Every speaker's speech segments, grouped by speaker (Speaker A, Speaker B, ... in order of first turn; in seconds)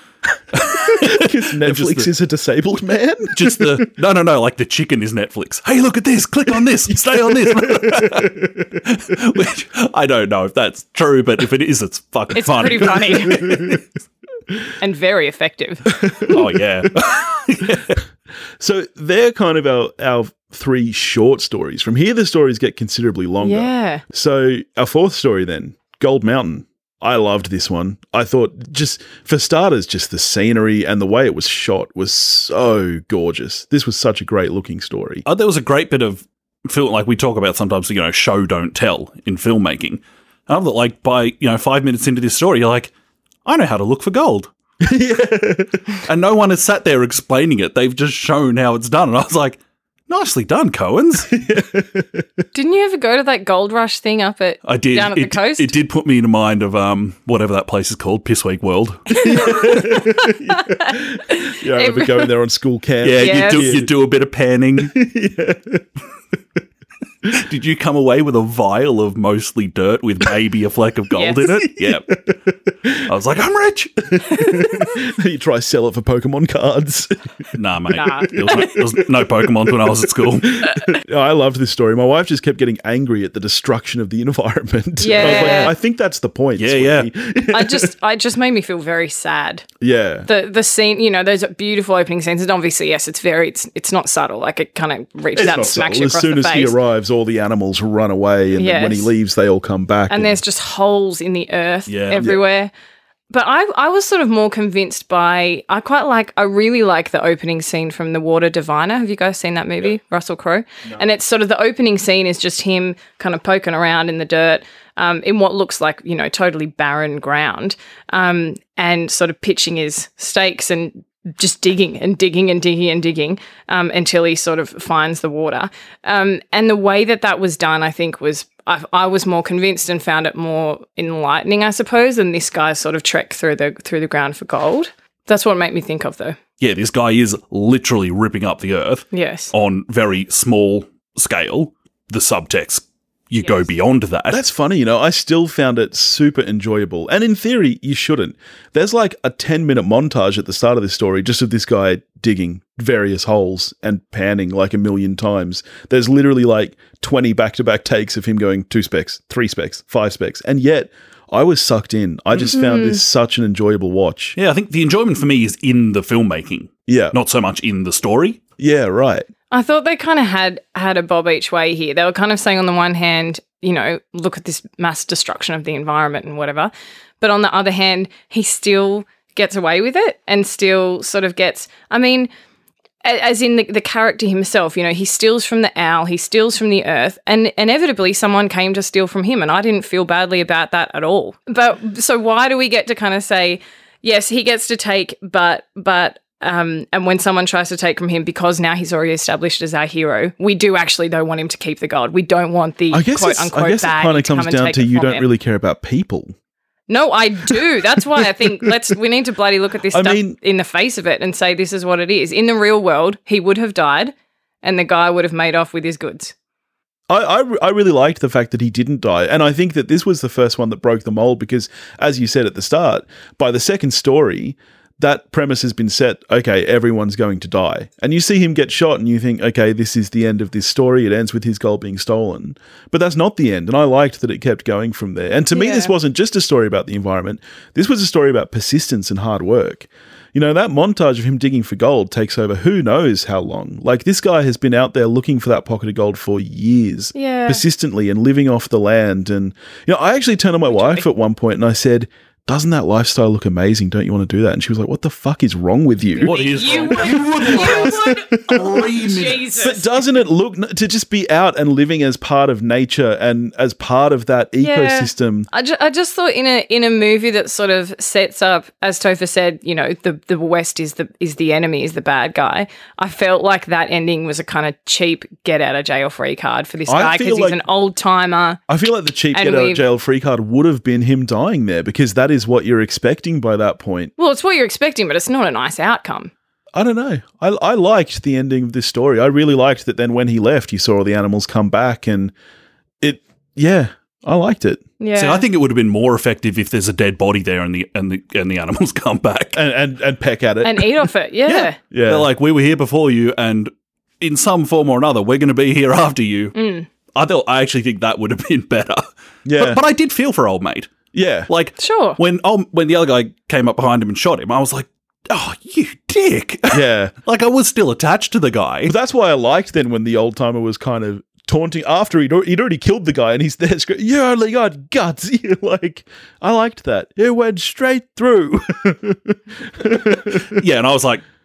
Speaker A: 0.5-2.1, 3.3-13.8, 16.3-18.0, 35.2-42.9, 43.4-44.5, 46.0-51.3, 54.6-59.2, 63.0-64.9, 67.3-72.1, 73.1-73.9, 77.5-80.7, 85.2-85.8, 86.6-87.1, 101.9-102.3, 136.6-144.4, 164.4-168.4, 256.2-259.4, 295.1-299.6, 301.5-306.5, 307.1-310.9, 311.5-318.9, 330.3-331.2
Speaker B: 0.7-3.9, 7.1-8.8, 13.2-13.8, 15.9-16.4, 18.6-35.2, 44.8-45.8, 51.3-52.4, 59.2-63.9, 64.8-65.9, 71.5-73.1, 74.1-77.3, 78.4-78.8, 80.4-87.9, 89.8-90.3, 95.3-100.4, 144.3-164.4, 166.9-167.2, 168.6-169.3, 202.9-206.3, 207.5-208.7, 209.9-210.4, 217.1-265.5, 276.9-277.6, 278.7-284.1, 286.7-292.3, 293.0-294.8, 299.5-301.1, 301.9-302.3, 309.4-309.8, 311.1-311.5, 316.7-317.1, 318.9-330.6
Speaker C: 12.3-13.6, 14.8-15.8, 23.4-24.0, 52.5-55.7, 59.1-62.3, 63.2-63.8, 71.1-71.5, 77.9-78.8, 85.0-85.7, 87.5-89.7, 90.3-96.8, 98.6-99.1, 100.1-102.7, 103.3-136.4, 139.1-139.5, 162.5-163.0, 169.5-182.3, 183.0-205.2, 206.9-216.3, 235.5-235.9, 247.1-247.6, 250.7-251.1, 256.1-259.9, 264.6-278.6, 279.3-279.8, 284.2-286.3, 295.0-295.4, 300.6-301.8, 306.6-306.9, 311.8-312.2